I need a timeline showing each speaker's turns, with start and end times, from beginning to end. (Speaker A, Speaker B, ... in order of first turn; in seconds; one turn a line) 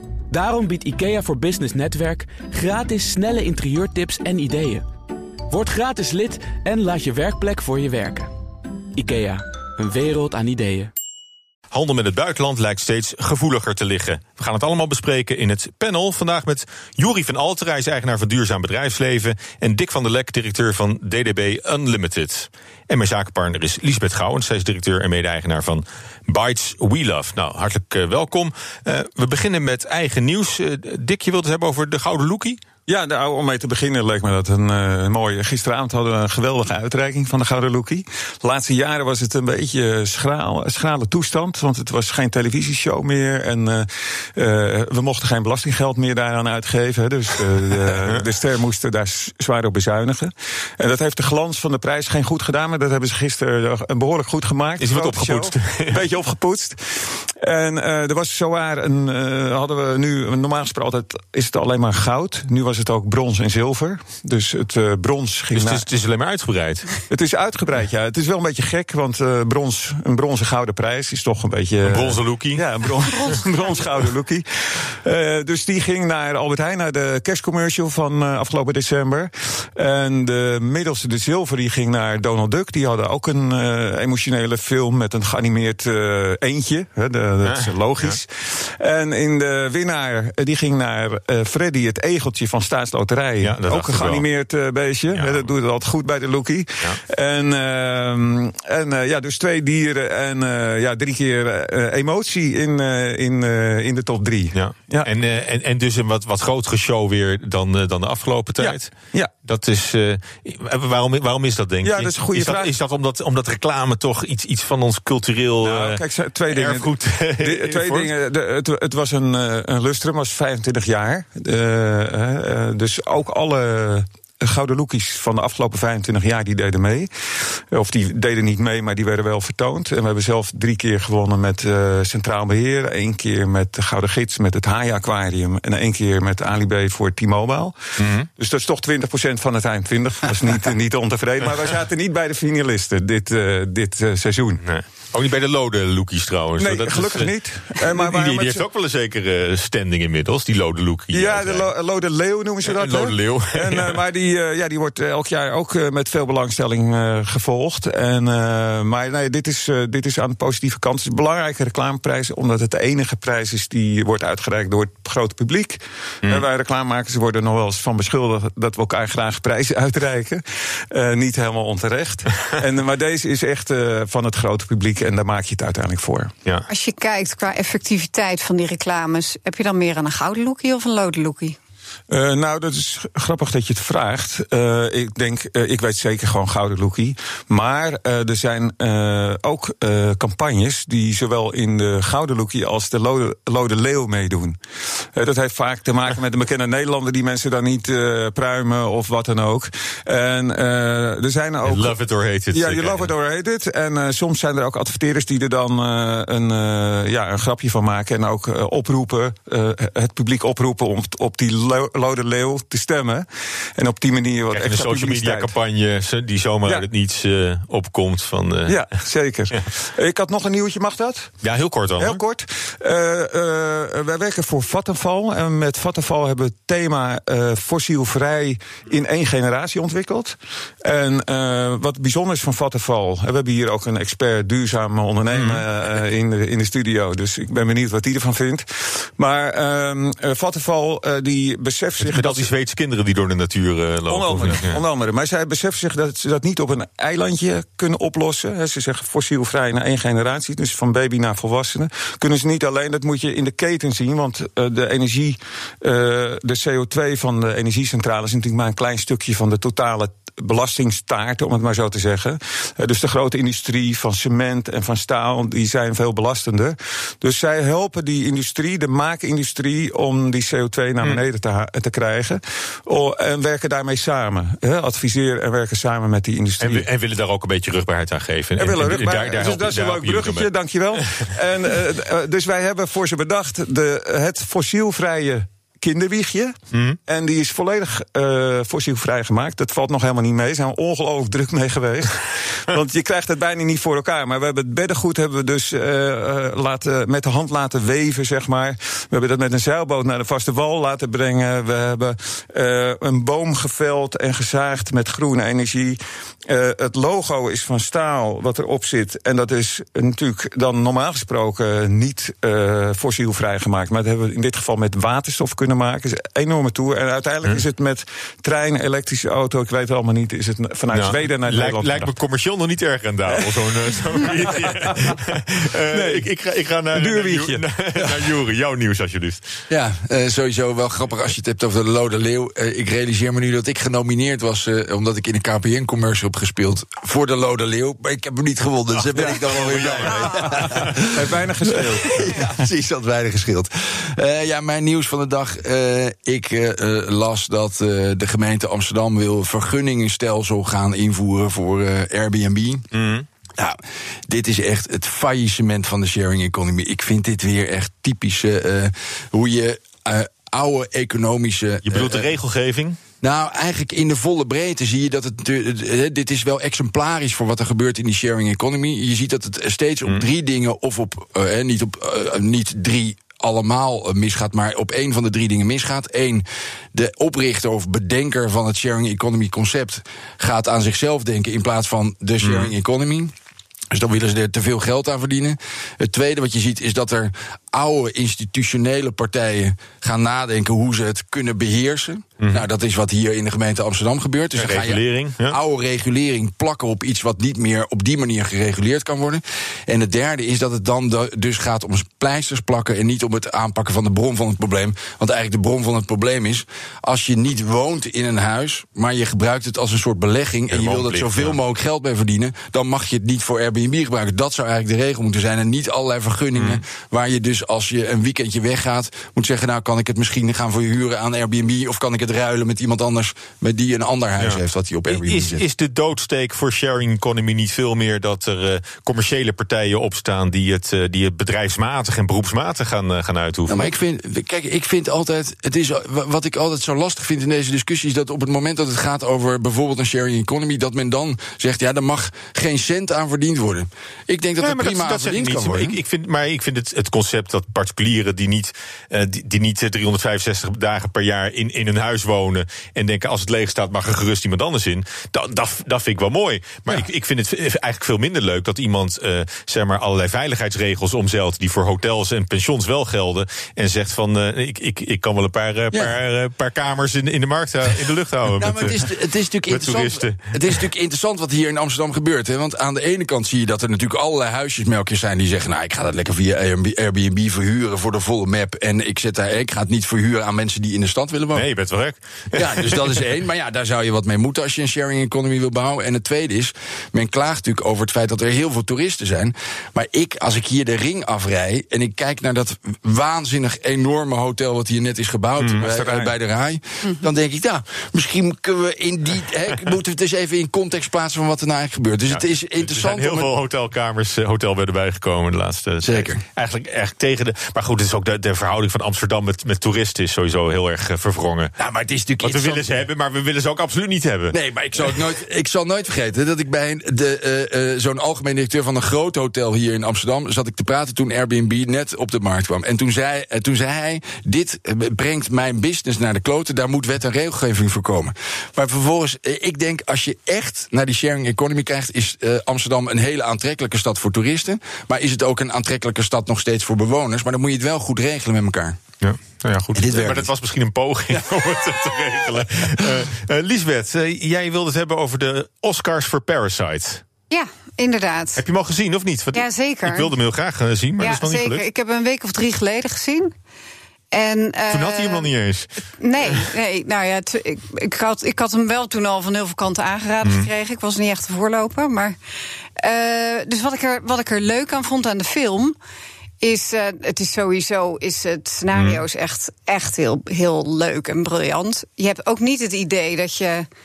Speaker A: 0.3-4.8
Speaker A: 5.5-8.3
Speaker A: 8.9-10.9
Speaker B: 11.7-32.6
Speaker C: 32.9-65.8
Speaker B: 54.8-56.0
Speaker B: 65.5-67.0
Speaker C: 67.1-105.1
Speaker B: 71.8-72.6
Speaker D: 73.0-73.8
Speaker B: 87.4-88.2
Speaker B: 93.4-94.2
Speaker B: 95.1-95.5
Speaker B: 104.5-108.9
Speaker C: 108.6-109.3
Speaker B: 109.4-118.1
Speaker C: 111.8-112.7
Speaker C: 115.6-116.9
Speaker C: 117.4-137.8
Speaker B: 138.0-138.3
Speaker C: 138.4-144.6
Speaker B: 144.6-151.7
Speaker C: 146.6-148.6
Speaker C: 151.1-176.3
Speaker B: 152.6-154.0
Speaker D: 176.7-181.6
Speaker C: 182.1-201.9
Speaker B: 201.6-203.1
Speaker C: 202.5-213.2
Speaker C: 213.8-215.5
Speaker B: 214.5-218.8
Speaker C: 218.7-221.3
Speaker B: 221.4-222.2
Speaker C: 222.0-242.5
Speaker B: 235.3-235.6
Speaker B: 242.0-244.8
Speaker C: 244.1-276.9
Speaker B: 276.6-280.5
Speaker C: 278.6-286.6
Speaker B: 286.7-287.0
Speaker C: 287.1-322.1
Speaker B: 320.9-329.6
Speaker C: 323.4-325.1
Speaker C: 325.9-326.3
Speaker C: 326.9-327.6
Speaker E: 329.7-352.9
Speaker B: 339.1-340.9
Speaker C: 339.1-342.3
Speaker B: 352.9-353.3
Speaker E: 353.6-362.3
Speaker B: 361.9-363.0
Speaker E: 363.2-383.3
Speaker B: 382.4-382.7
Speaker E: 383.9-425.6
Speaker B: 392.4-392.6
Speaker B: 394.6-395.6
Speaker B: 410.7-411.6
Speaker B: 416.6-416.8
Speaker B: 424.4-433.9
Speaker E: 433.7-446.0
Speaker B: 444.6-469.1
Speaker E: 468.6-481.6
Speaker B: 469.7-470.8
Speaker B: 481.5-483.2
Speaker E: 482.5-503.5
Speaker C: 495.8-496.3
Speaker B: 502.3-511.7
Speaker E: 506.0-506.4
Speaker E: 511.8-512.9
Speaker B: 512.4-514.5
Speaker E: 514.5-539.0
Speaker B: 539.2-547.2
Speaker E: 540.0-540.5
Speaker D: 547.5-548.6
Speaker B: 548.6-551.9
Speaker D: 549.5-550.3
Speaker D: 551.2-553.5
Speaker D: 554.3-555.5
Speaker B: 554.9-556.7
Speaker D: 556.2-562.4
Speaker B: 560.4-560.7
Speaker D: 563.0-566.0
Speaker D: 566.6-573.9
Speaker B: 568.9-569.2